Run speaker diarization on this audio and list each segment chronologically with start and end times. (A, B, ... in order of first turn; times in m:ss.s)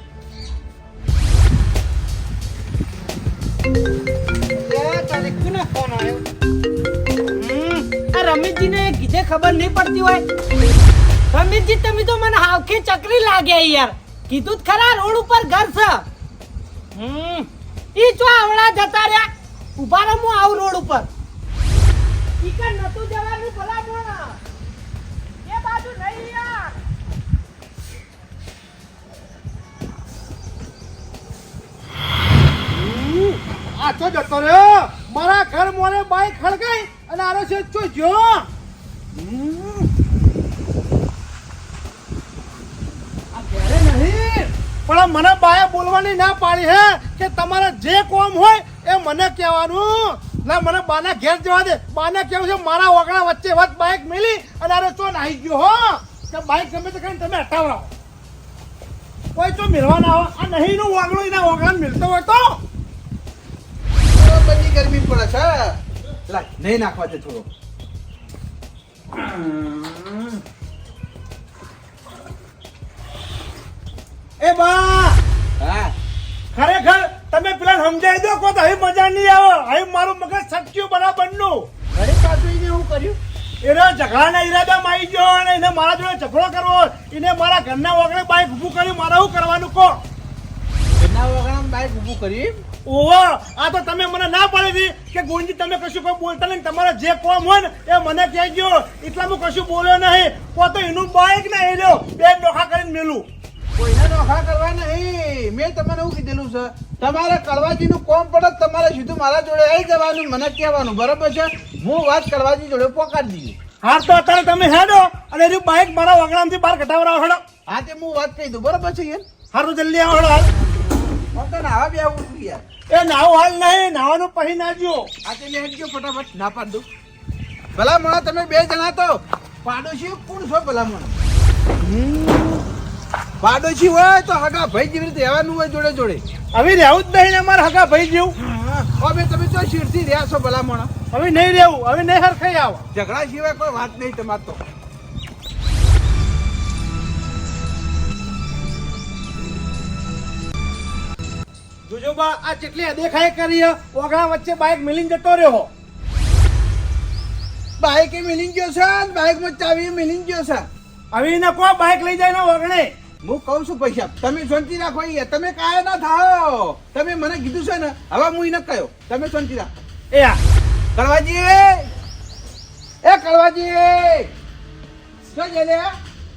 0:04.5-0:06.2 A
0:07.3-0:10.2 A
0:11.3-0:16.0 A
0:17.0-0:21.1 A
0:22.4-0:24.4 A
0:25.4-0:26.8 A
0:33.7-0:38.5 B
0:39.1-0:39.9 C
0:43.3-0:44.4 C
0:44.9-0:57.9 B
0:59.3-1:02.6 B
1:04.0-1:07.5 C
1:09.1-1:10.4 C
1:14.4-1:15.2 B
1:15.6-1:15.9 C
1:16.5-1:21.7 B
1:21.9-1:23.2 C
1:23.6-1:30.0 B
1:31.0-1:32.6 C
1:32.8-1:43.2 B
1:43.8-1:53.6 C
1:53.8-1:57.4 B
1:57.7-1:59.2 C
1:59.5-2:00.5 B
2:00.5-2:02.6 C
2:02.9-2:05.1 B
2:05.2-2:06.8 C
2:07.7-2:11.2 C
2:11.8-2:12.6 C
2:13.4-2:16.2 C
2:16.5-2:18.3 B
2:18.4-2:20.9 C
2:21.1-2:22.8 B
2:22.9-2:24.6 C
2:31.9-2:35.7 B
2:37.8-2:40.7 C
2:41.1-2:42.9 B
2:43.2-2:49.8 C
2:50.1-2:50.4 B
2:51.0-2:51.9 C
2:53.0-2:54.3 C
2:55.3-2:56.0 C